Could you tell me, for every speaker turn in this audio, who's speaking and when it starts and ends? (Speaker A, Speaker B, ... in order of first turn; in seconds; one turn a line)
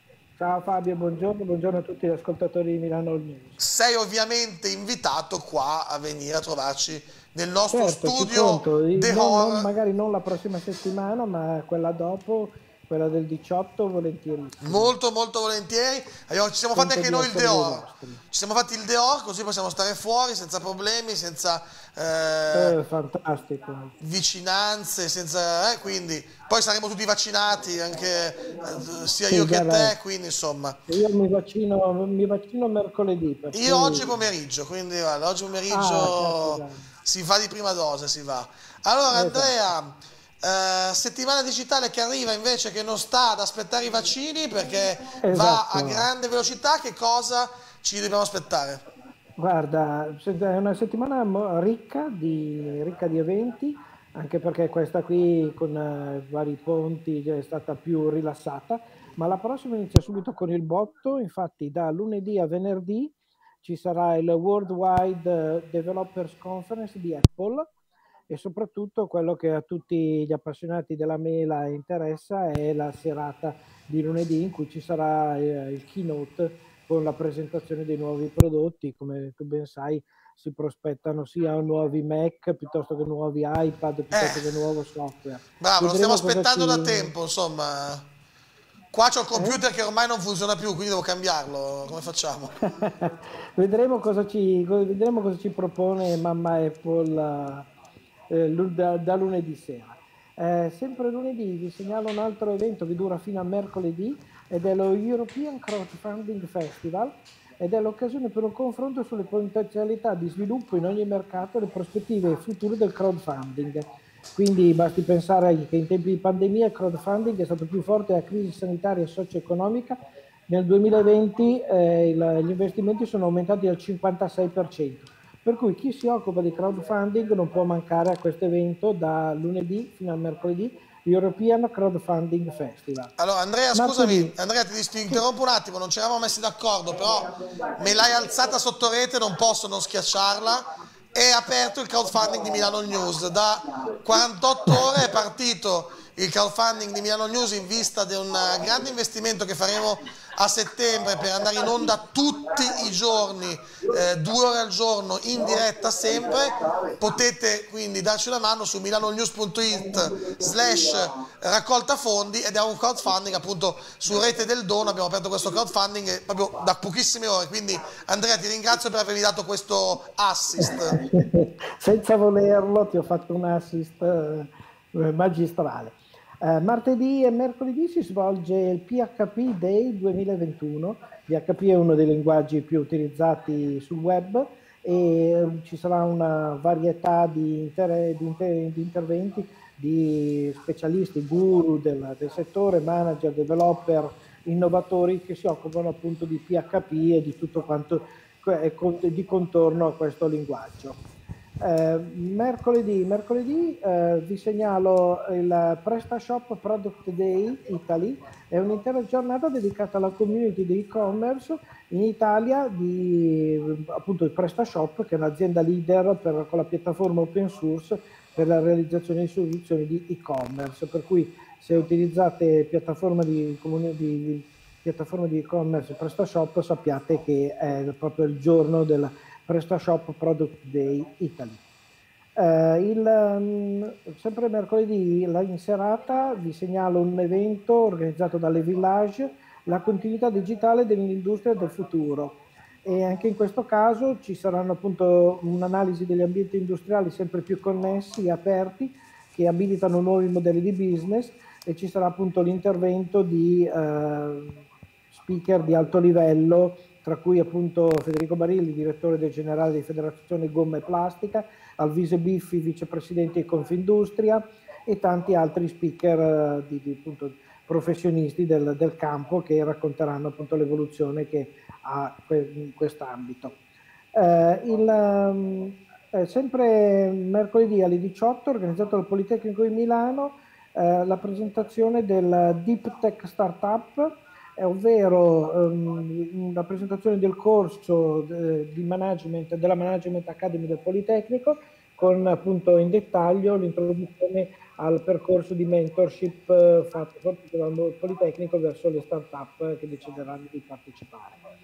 Speaker A: 0.4-3.6
Speaker B: 3.6-9.7
Speaker A: 7.7-14.9
Speaker B: 14.6-22.8
Speaker A: 16.8-18.2
Speaker A: 22.5-23.9
Speaker B: 24.0-30.8
Speaker A: 29.3-29.9
Speaker A: 30.9-34.2
Speaker B: 33.5-48.8
Speaker A: 35.7-36.9
Speaker A: 39.1-39.5
Speaker A: 45.2-46.1
Speaker A: 49.4-67.7
Speaker A: 68.3-87.1
Speaker B: 84.1-84.5
Speaker B: 85.6-88.1
Speaker B: 88.9-92.6
Speaker A: 89.3-89.6
Speaker A: 92.7-97.7
Speaker A: 98.3-133.1
Speaker B: 133.2-171.0
Speaker A: 133.7-134.4
Speaker A: 170.6-201.0
Speaker A: 201.6-231.6
Speaker A: 232.4-254.6
Speaker A: 255.1-273.6
Speaker A: 274.1-301.4